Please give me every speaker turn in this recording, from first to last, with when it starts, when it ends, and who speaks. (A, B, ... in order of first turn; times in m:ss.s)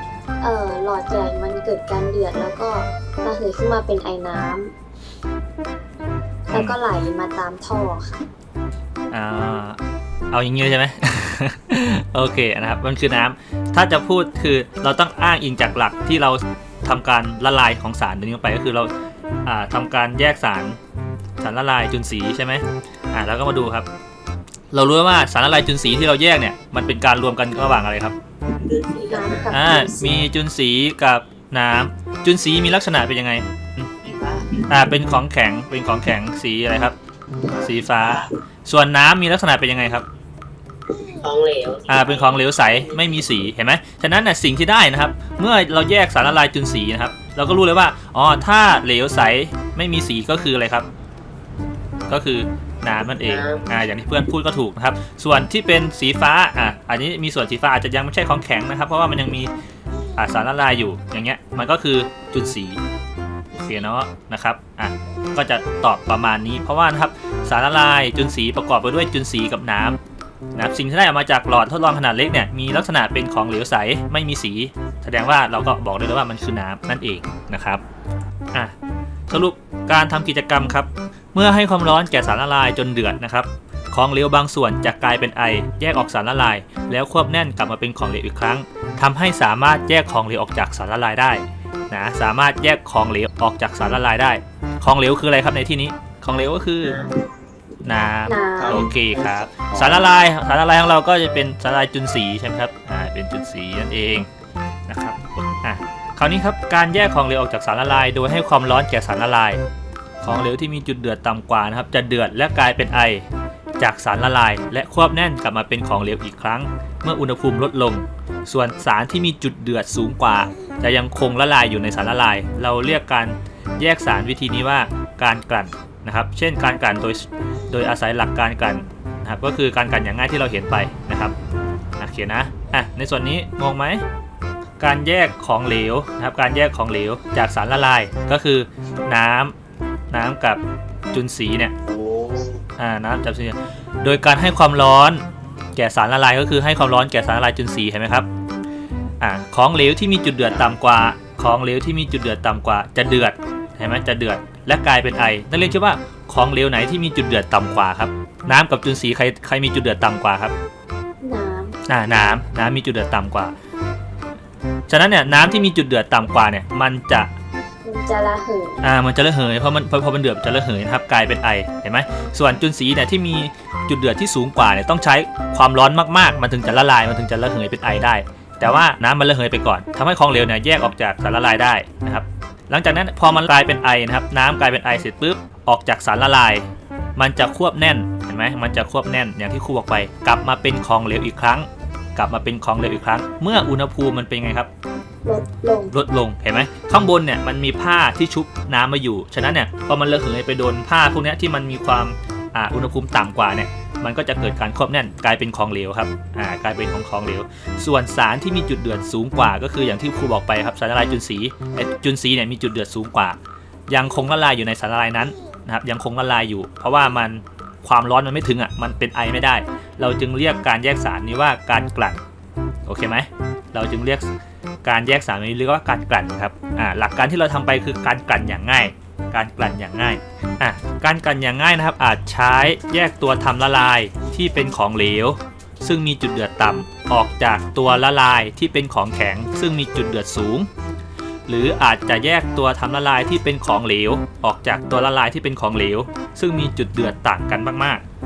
0:00.4-0:04.7 A
0:06.5-0:06.8 B
0:06.5-0:08.2 A
0:09.1-0:09.8 B
0:10.3-0:18.9 B
0:19.4-0:20.8 B
0:21.4-0:23.9 B
0:24.7-0:28.1 B
0:28.5-0:29.5 C
0:29.1-0:30.2 A
0:29.5-0:33.9 B
0:34.0-0:34.8 C
0:34.7-0:37.0 B
0:37.5-0:38.3 C
0:37.6-0:40.0 B
0:40.9-0:43.5 C
0:41.9-0:50.9 B
0:52.1-0:59.5 B
0:53.2-0:53.7 C
1:00.2-1:02.8 B
1:03.6-1:10.0 B
1:10.5-1:17.8 B
1:19.3-1:37.0 B
1:36.8-1:37.2 C
1:37.8-1:44.3 B
1:38.3-1:38.9 A
1:38.6-1:40.1 D
1:44.9-1:49.6 B
1:50.2-1:53.3 B
1:53.8-2:11.3 B
2:12.0-2:14.0 B
2:14.8-2:19.5 B
2:20.1-2:20.6 B
2:21.1-2:21.7 B
2:21.8-2:22.6 D
2:22.8-2:25.2 B
2:25.8-2:28.3 B
2:29.2-2:40.5 B
2:41.2-2:41.8 A
2:41.9-2:43.5 B
2:44.9-2:47.3 B
2:47.8-2:48.8 A
2:48.8-3:14.7 B
3:15.2-3:15.9 A
3:15.9-3:33.4 B
3:33.9-3:42.2 B
3:42.8-3:44.3 B
3:44.8-4:00.7 B
4:01.5-4:08.0 B